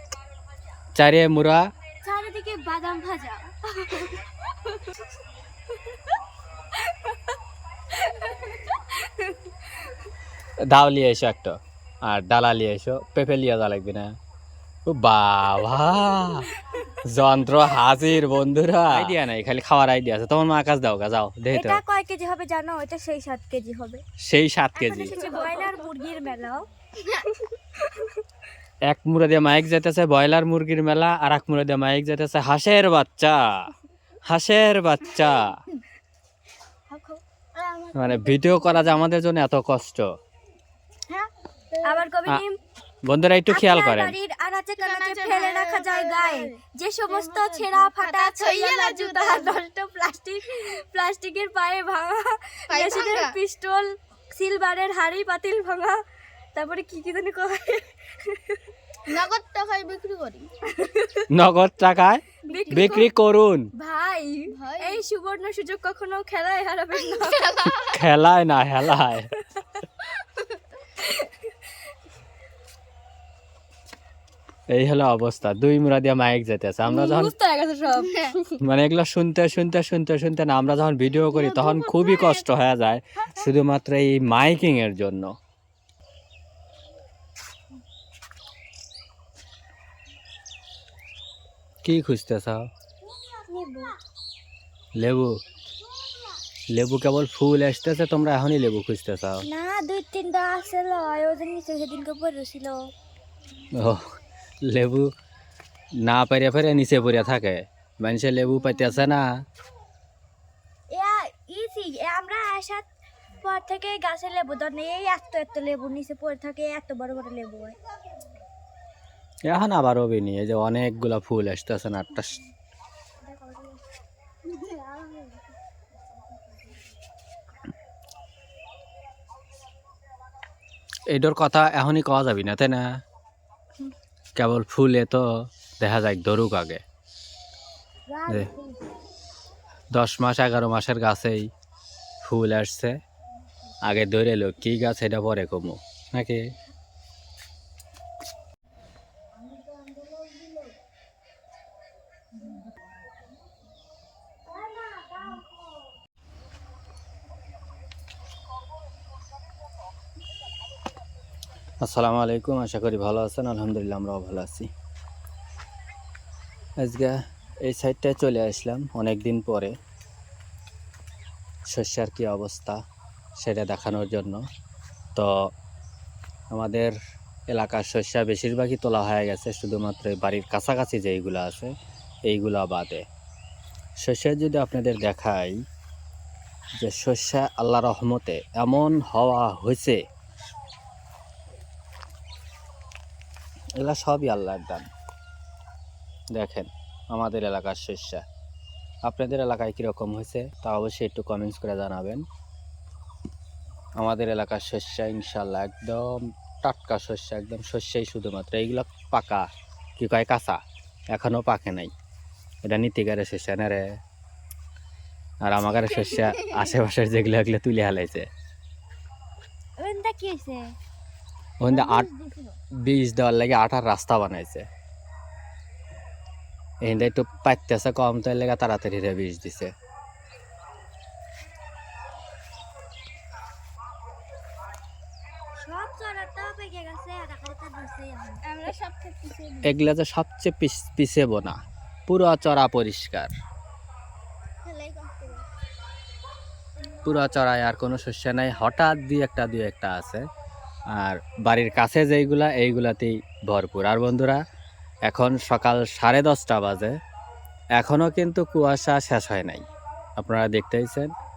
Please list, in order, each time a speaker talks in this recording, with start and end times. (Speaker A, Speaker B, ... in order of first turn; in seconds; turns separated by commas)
Speaker A: 1.0-1.6, Speaker B: 2.0-5.0, Speaker B: 8.0-9.7, Speaker A: 10.7-14.1, Speaker A: 14.9-16.5, Speaker A: 17.1-21.8, Speaker B: 21.5-24.0, Speaker A: 24.2-25.2, Speaker B: 24.8-26.7, Speaker C: 25.1-25.9, Speaker B: 27.9-28.2, Speaker A: 28.9-33.7, Speaker A: 34.3-35.6, Speaker B: 36.9-37.2, Speaker C: 37.5-38.5, Speaker A: 37.9-40.2, Speaker C: 41.1-42.0, Speaker B: 41.9-42.6, Speaker A: 43.0-44.1, Speaker B: 43.5-56.0, Speaker C: 44.8-46.6, Speaker C: 47.1-49.6, Speaker C: 52.7-53.4, Speaker B: 56.5-58.6, Speaker C: 59.1-60.5, Speaker B: 60.8-61.3, Speaker A: 61.3-63.7, Speaker C: 62.5-63.1, Speaker B: 62.5-63.1, Speaker B: 63.8-67.8, Speaker C: 64.5-65.0, Speaker C: 67.1-68.0, Speaker A: 67.8-69.3, Speaker B: 71.0-71.3, Speaker A: 74.7-77.3, Speaker B: 76.9-78.3, Speaker C: 77.9-78.4, Speaker A: 78.6-85.4, Speaker B: 81.5-82.1, Speaker C: 81.5-82.4, Speaker A: 91.8-92.7, Speaker B: 93.5-94.0, Speaker A: 95.0-95.3, Speaker A: 96.7-99.5, Speaker B: 99.4-102.9, Speaker A: 103.8-104.1, Speaker A: 104.6-105.1, Speaker A: 106.0-109.2, Speaker B: 110.9-112.9, Speaker B: 113.4-117.8, Speaker A: 119.5-122.4, Speaker B: 123.2-123.8, Speaker B: 124.5-125.4, Speaker A: 131.1-132.9, Speaker A: 134.4-135.3, Speaker A: 135.8-136.8, Speaker B: 138.2-138.7, Speaker A: 139.9-141.5, Speaker A: 142.2-143.0, Speaker A: 143.9-146.4, Speaker B: 150.2-150.6, Speaker A: 161.8-164.7, Speaker A: 166.8-169.8, Speaker A: 171.7-172.8, Speaker A: 173.4-174.4, Speaker A: 176.5-176.9, Speaker A: 177.5-181.7, Speaker A: 182.3-183.0, Speaker A: 184.0-185.6, Speaker A: 186.8-190.0, Speaker A: 193.8-194.9, Speaker A: 196.3-198.2, Speaker A: 199.0-202.2, Speaker A: 204.0-209.5, Speaker A: 210.0-210.6, Speaker A: 211.1-211.9, Speaker A: 212.7-213.9, Speaker A: 215.4-218.3, Speaker C: 216.1-216.5, Speaker B: 219.8-220.7, Speaker A: 221.6-222.1, Speaker B: 221.7-222.6, Speaker A: 222.8-224.7, Speaker A: 226.8-229.7, Speaker B: 235.6-238.5, Speaker C: 238.4-239.8, Speaker A: 239.6-243.3, Speaker C: 244.6-245.4, Speaker A: 247.1-250.2, Speaker A: 250.9-254.4, Speaker A: 255.1-256.9, Speaker A: 257.8-259.6, Speaker A: 260.2-261.1